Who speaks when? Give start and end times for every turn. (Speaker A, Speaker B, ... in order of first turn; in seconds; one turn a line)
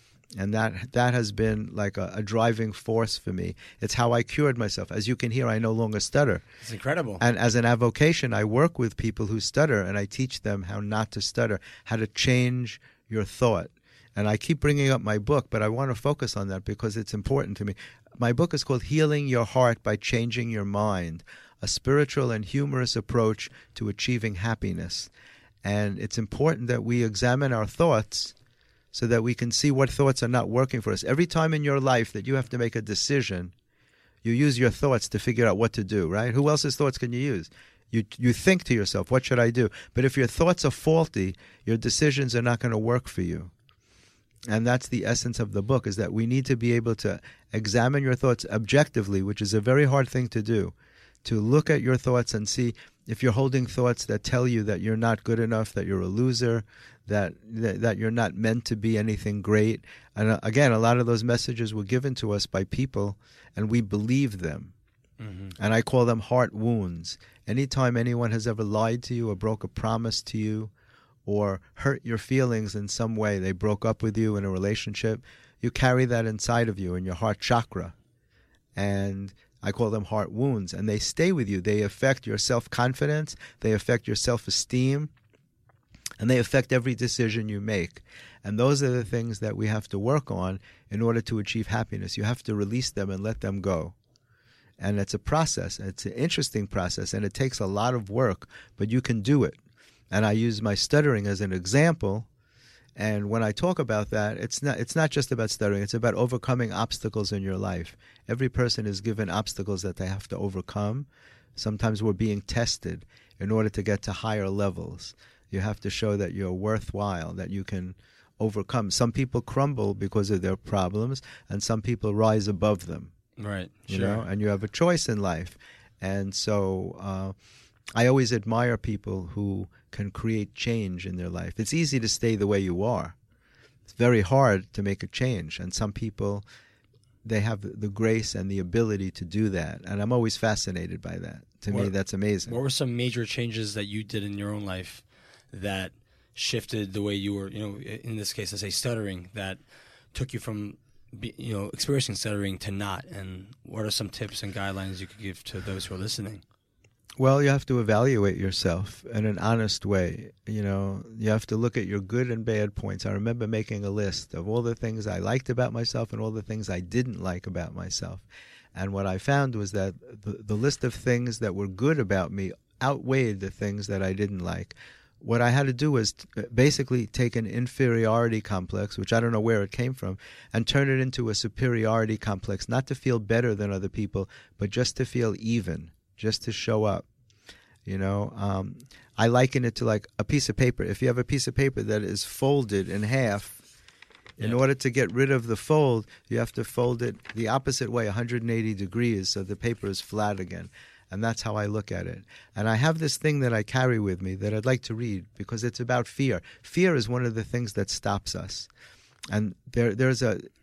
Speaker A: 0.3-6.4
Speaker B: 6.6-7.2
Speaker A: 7.2-25.1
Speaker A: 25.6-28.3
Speaker A: 28.9-33.5
Speaker A: 34.2-43.5
Speaker A: 44.5-64.7
Speaker B: 65.2-65.5
Speaker A: 65.6-70.7
Speaker A: 71.2-77.9
Speaker A: 78.7-85.1
Speaker A: 86.2-93.9
Speaker A: 94.8-99.6
Speaker A: 100.1-102.3
Speaker A: 103.0-123.1
Speaker B: 123.4-124.2
Speaker A: 123.9-127.3
Speaker A: 127.9-133.1
Speaker A: 133.9-136.4
Speaker A: 137.2-142.6
Speaker B: 142.5-149.6
Speaker B: 150.1-156.4
Speaker A: 157.2-187.1
Speaker A: 187.8-193.6
Speaker A: 194.4-208.7
Speaker A: 209.3-210.4